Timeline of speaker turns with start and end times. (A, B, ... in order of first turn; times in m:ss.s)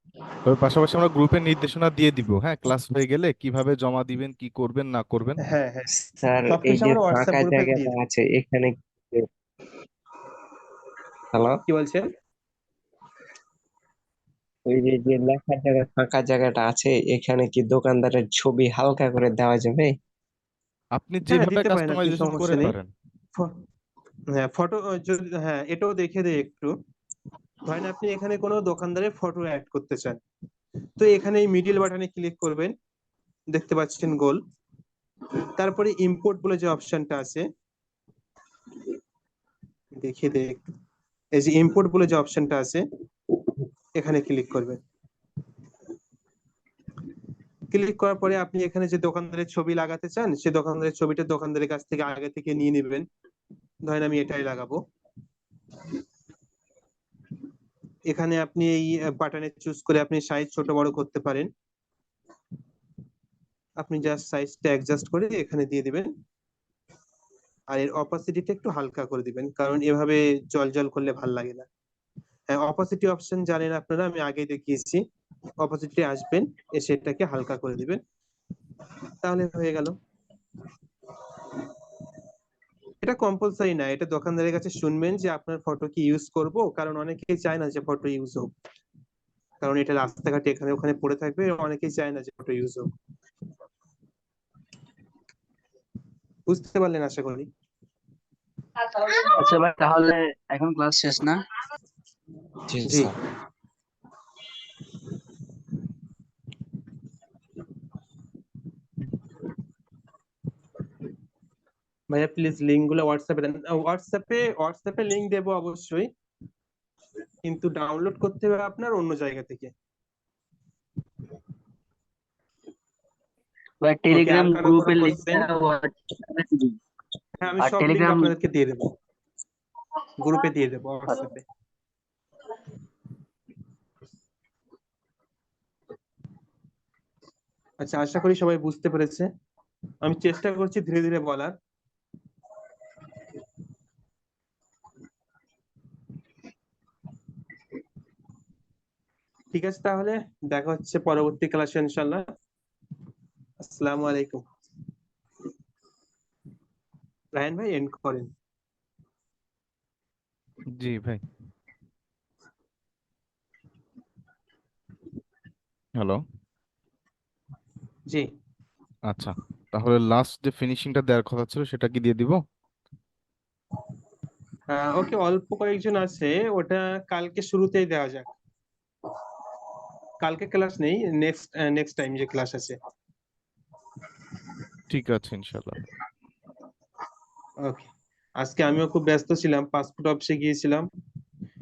0:00.4-0:05.4 A
0:05.4-0:05.9 B
0:06.2-0:09.2 C
0:06.5-0:08.0 B
0:11.3-0:11.6 C
0:11.7-0:12.1 B
0:14.7-0:19.9 C
0:20.9-0:22.9 A
0:21.3-0:22.7 B
0:24.3-0:26.8 B
0:27.6-0:30.2 B
0:31.0-0:32.7 B
0:33.5-0:34.4 B
0:35.6-0:37.5 B
0:40.0-0:40.6 B
0:41.3-0:42.8 B
0:44.0-0:44.8 B
0:47.7-0:53.1 B
0:53.8-0:54.8 B
0:58.1-1:01.5 B
1:03.8-1:06.1 B
1:07.7-1:11.7 B
1:12.5-1:15.0 B
1:15.6-1:18.0 B
1:19.2-1:20.0 B
1:23.0-1:28.5 B
1:29.6-1:32.9 B
1:36.5-1:37.5 B
1:38.9-1:41.4 D
1:42.7-1:43.1 C
1:52.1-1:56.1 B
1:57.4-1:59.7 B
2:03.8-2:06.8 D
2:04.1-2:05.5 B
2:07.4-2:08.9 B
2:07.6-2:08.3 D
2:10.2-2:11.4 B
2:17.8-2:19.3 B
2:20.0-2:21.5 B
2:29.5-2:32.2 B
2:33.6-2:34.4 B
2:37.3-2:38.3 B
2:40.8-2:41.2 A
2:49.1-2:52.4 A
2:54.7-2:58.3 B
3:00.2-3:02.8 B
3:04.9-3:05.8 A
3:08.4-3:10.9 B